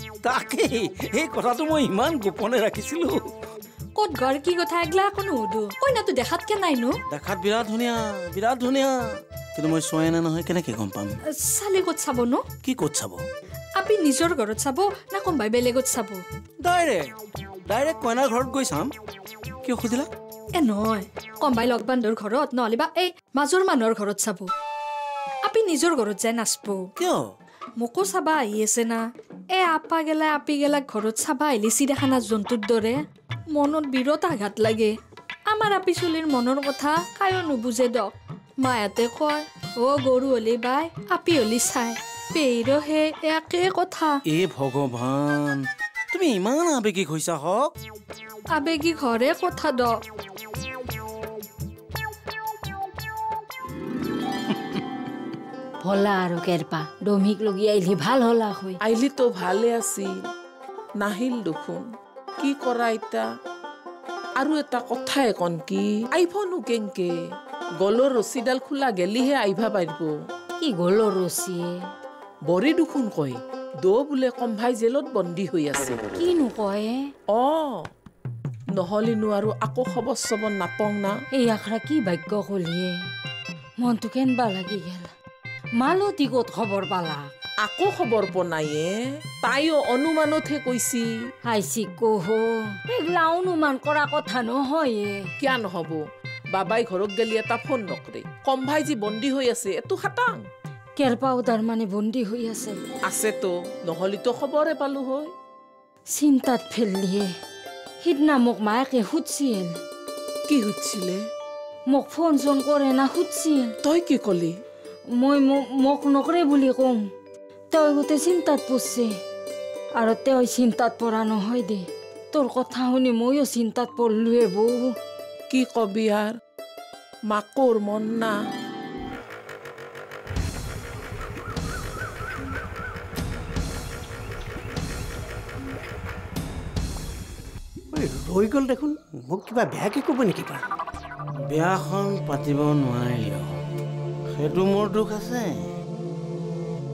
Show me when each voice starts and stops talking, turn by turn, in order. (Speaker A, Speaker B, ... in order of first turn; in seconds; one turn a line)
Speaker A: 0.2-3.3
Speaker B: 4.0-7.0
Speaker A: 7.1-11.2
Speaker B: 11.2-12.4
Speaker A: 12.6-13.2
Speaker B: 13.8-16.2
Speaker A: 16.6-17.1
Speaker A: 17.6-18.9
Speaker A: 19.6-20.1
Speaker B: 20.5-24.5
Speaker B: 25.5-26.9
Speaker A: 27.0-27.2
Speaker B: 27.8-29.0
Speaker B: 29.5-33.0
Speaker B: 33.5-34.9
Speaker B: 35.5-44.2
Speaker A: 44.3-47.7
Speaker B: 48.5-50.0
Speaker C: 55.8-58.8
Speaker D: 58.8-60.2
Speaker D: 61.0-61.9
Speaker D: 62.4-63.3
Speaker D: 64.4-67.1
Speaker D: 67.8-70.2
Speaker C: 70.6-71.8
Speaker D: 72.5-76.0
Speaker C: 76.2-77.0
Speaker D: 77.3-77.8
Speaker D: 78.8-81.2
Speaker C: 81.3-83.0
Speaker C: 83.8-85.1
Speaker C: 85.8-87.3
Speaker D: 87.6-91.1
Speaker C: 91.4-95.2
Speaker D: 95.4-100.4
Speaker C: 101.0-102.8
Speaker D: 103.0-105.3
Speaker C: 106.1-107.3
Speaker C: 108.0-109.7
Speaker D: 110.5-111.2
Speaker C: 111.9-113.7
Speaker D: 113.8-114.5
Speaker C: 115.2-117.0
Speaker C: 117.7-119.1
Speaker C: 120.0-124.9
Speaker D: 125.5-126.3
Speaker D: 127.3-128.3
Speaker E: 137.9-140.7
Speaker A: 141.5-143.5
Speaker A: 144.3-145.6